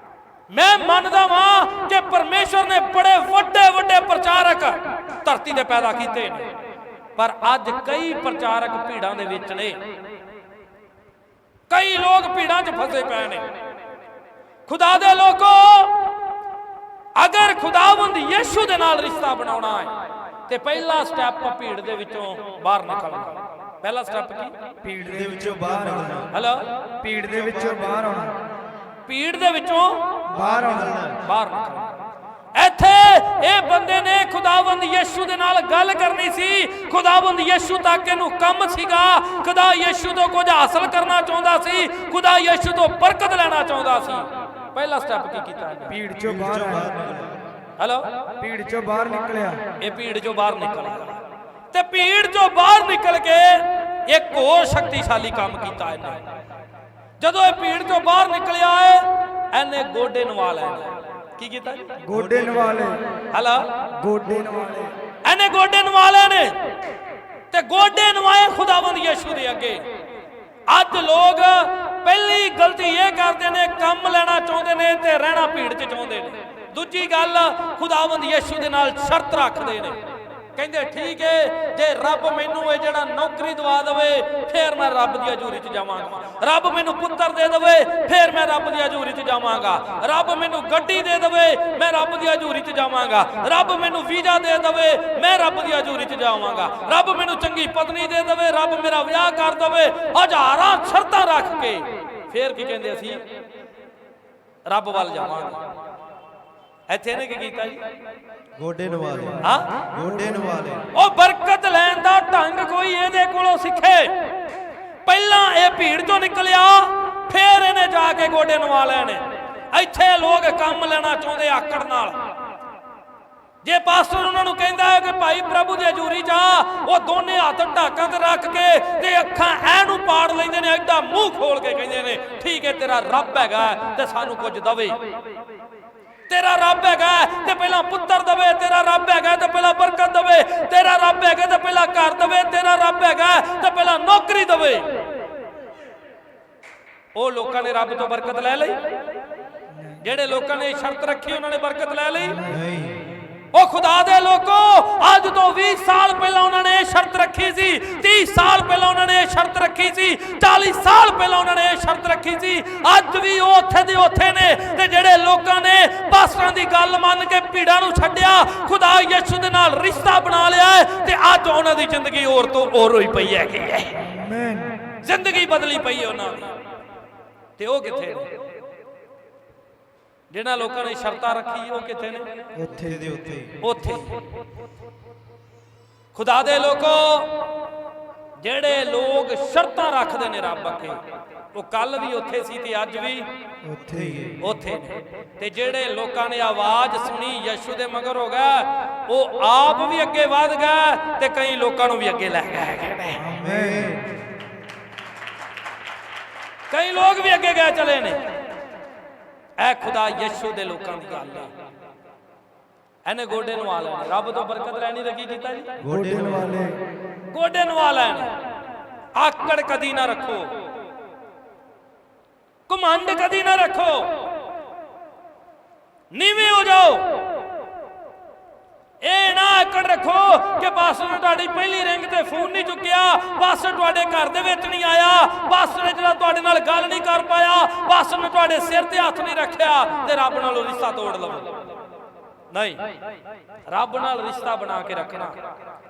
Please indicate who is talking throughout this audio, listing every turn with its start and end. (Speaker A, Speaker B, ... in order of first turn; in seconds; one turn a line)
Speaker A: 0.5-6.5
Speaker A: 7.2-9.8
Speaker A: 11.7-13.5
Speaker A: 14.7-15.9
Speaker A: 17.2-19.9
Speaker A: 20.5-24.5
Speaker B: 24.8-26.3
Speaker C: 25.0-26.3
Speaker A: 26.3-26.7
Speaker B: 27.0-28.4
Speaker C: 27.2-28.1
Speaker A: 29.1-30.1
Speaker B: 30.3-31.0
Speaker C: 30.3-31.2
Speaker A: 31.2-31.9
Speaker A: 32.5-46.0
Speaker B: 45.9-46.9
Speaker C: 46.2-47.4
Speaker A: 47.8-48.1
Speaker B: 48.4-49.6
Speaker A: 49.8-56.2
Speaker A: 57.2-61.9
Speaker B: 62.0-63.0
Speaker C: 62.1-62.7
Speaker A: 63.3-63.7
Speaker B: 63.9-64.9
Speaker A: 65.2-66.6
Speaker A: 67.5-69.8
Speaker A: 70.7-80.0
Speaker A: 80.6-103.2
Speaker A: 104.7-105.6
Speaker A: 106.9-107.8
Speaker C: 108.6-110.8
Speaker A: 109.4-109.7
Speaker A: 110.9-114.1
Speaker A: 115.0-122.2
Speaker A: 123.6-135.0
Speaker A: 136.3-144.9
Speaker A: 147.2-148.8
Speaker B: 149.8-150.0
Speaker A: 150.0-152.4
Speaker B: 152.2-152.7
Speaker C: 152.4-153.0
Speaker A: 153.5-174.0
Speaker B: 174.0-174.8
Speaker A: 175.0-176.5
Speaker A: 177.6-178.3
Speaker A: 180.3-182.3
Speaker B: 182.6-183.2
Speaker C: 182.7-183.6
Speaker A: 183.6-184.2
Speaker A: 186.1-187.4
Speaker A: 188.4-191.0
Speaker A: 191.5-193.3
Speaker B: 193.7-194.3
Speaker C: 193.8-194.4
Speaker A: 194.4-203.2
Speaker B: 203.1-204.0
Speaker C: 203.3-204.1
Speaker A: 206.7-208.2
Speaker A: 209.6-211.5
Speaker A: 213.1-215.7
Speaker C: 215.8-216.6
Speaker B: 215.9-216.8
Speaker A: 217.3-218.3
Speaker A: 219.2-220.5
Speaker A: 222.7-224.2
Speaker A: 226.1-227.2
Speaker A: 229.0-241.5
Speaker A: 242.5-242.8
Speaker A: 243.7-245.4